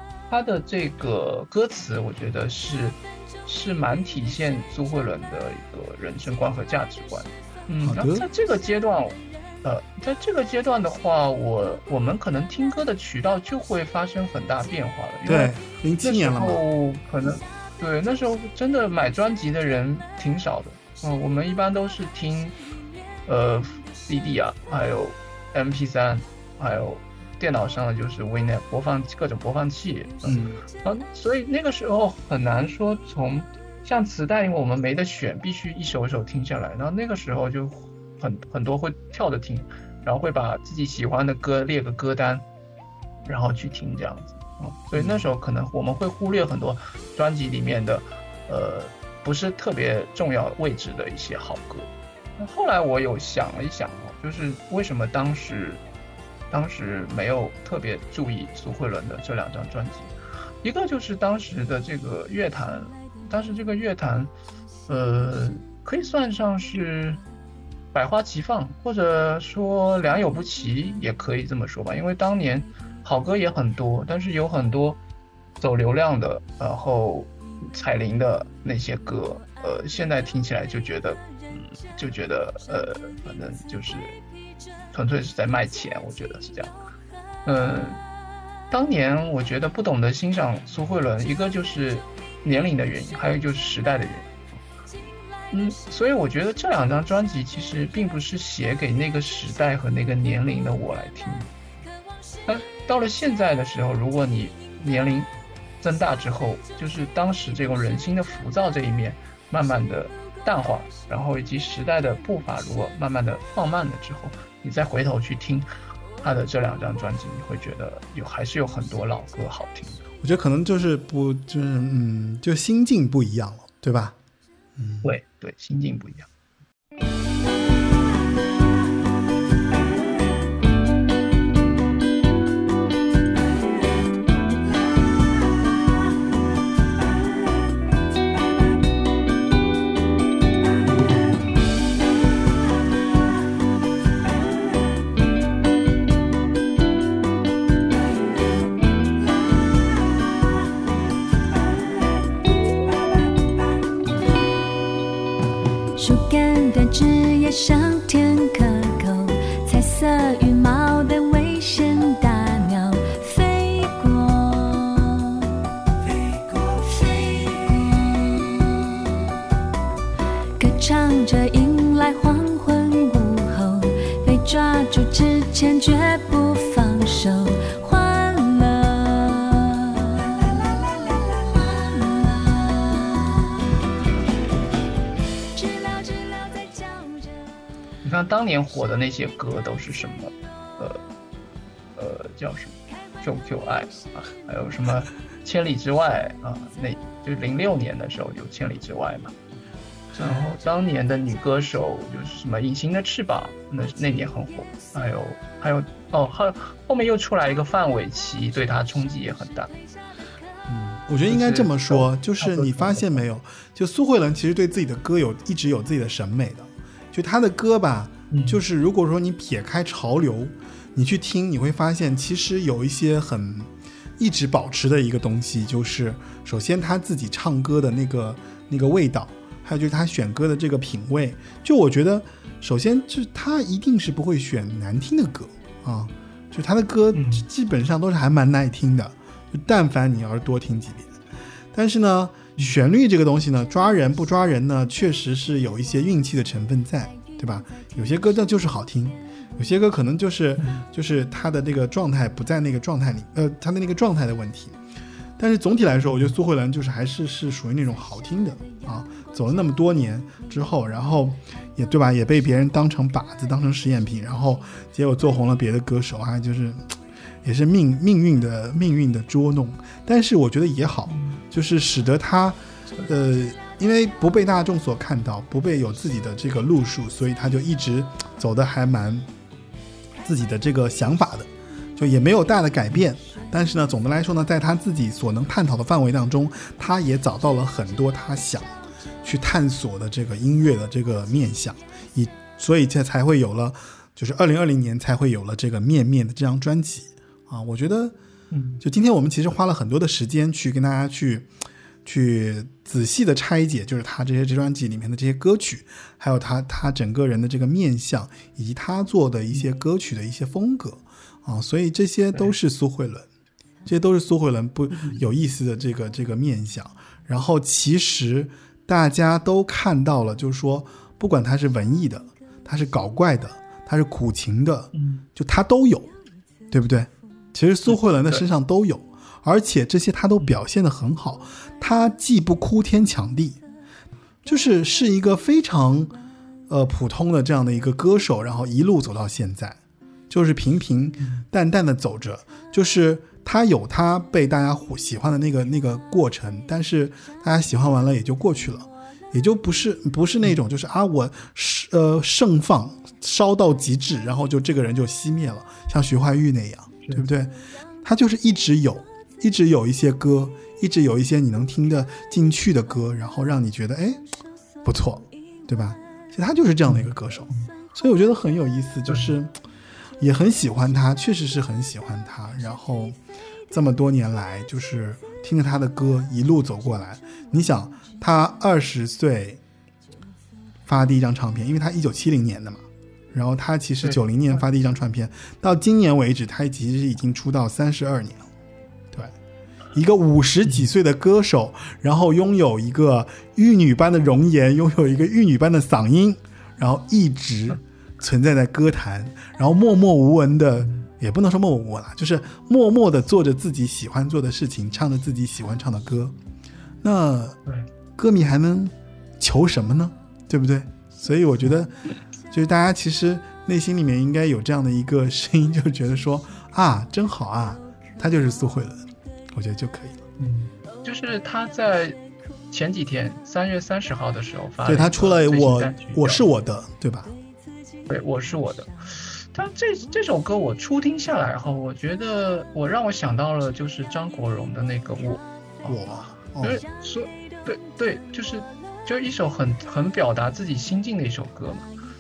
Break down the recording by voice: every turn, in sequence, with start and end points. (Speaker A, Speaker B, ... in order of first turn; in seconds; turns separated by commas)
Speaker A: 0.3-22.6, Speaker B: 7.8-8.3, Speaker B: 15.2-16.6, Speaker A: 23.3-42.5, Speaker B: 30.2-30.6, Speaker A: 43.3-55.8, Speaker B: 45.0-45.3, Speaker A: 56.5-64.3, Speaker A: 64.9-67.2, Speaker A: 67.9-75.0, Speaker A: 75.6-84.2, Speaker A: 84.9-86.8, Speaker A: 87.5-88.0, Speaker A: 88.7-94.6, Speaker A: 95.5-101.5, Speaker A: 102.5-105.3, Speaker A: 105.8-115.7, Speaker A: 116.2-120.0, Speaker B: 120.2-124.2, Speaker B: 124.8-125.1, Speaker A: 125.0-126.3, Speaker C: 156.0-165.5, Speaker C: 166.2-169.3, Speaker C: 170.6-183.7, Speaker C: 185.5-187.4, Speaker A: 188.0-191.0, Speaker A: 192.0-199.3, Speaker A: 200.1-209.7, Speaker B: 210.7-241.1, Speaker A: 211.3-213.2, Speaker A: 218.3-218.6, Speaker A: 237.1-237.4, Speaker B: 241.7-254.8, Speaker A: 250.6-250.8, Speaker B: 255.4-279.3, Speaker A: 271.1-271.4, Speaker B: 280.2-298.1, Speaker A: 298.5-298.8, Speaker B: 298.8-301.5, Speaker B: 302.1-313.3, Speaker B: 313.9-326.1, Speaker A: 314.9-315.2, Speaker A: 324.9-325.3, Speaker B: 326.7-333.6, Speaker A: 327.9-328.5, Speaker B: 334.4-336.2, Speaker B: 336.7-339.8, Speaker B: 340.3-364.2, Speaker B: 364.8-369.6, Speaker A: 366.9-367.7, Speaker B: 370.2-373.2, Speaker B: 373.7-379.6, Speaker B: 380.9-388.5, Speaker B: 389.9-406.4, Speaker B: 407.0-407.6, Speaker B: 408.2-412.0, Speaker B: 412.5-420.3, Speaker A: 420.4-422.2, Speaker A: 422.7-426.4, Speaker B: 424.9-427.3, Speaker A: 428.1-441.9, Speaker B: 435.9-436.8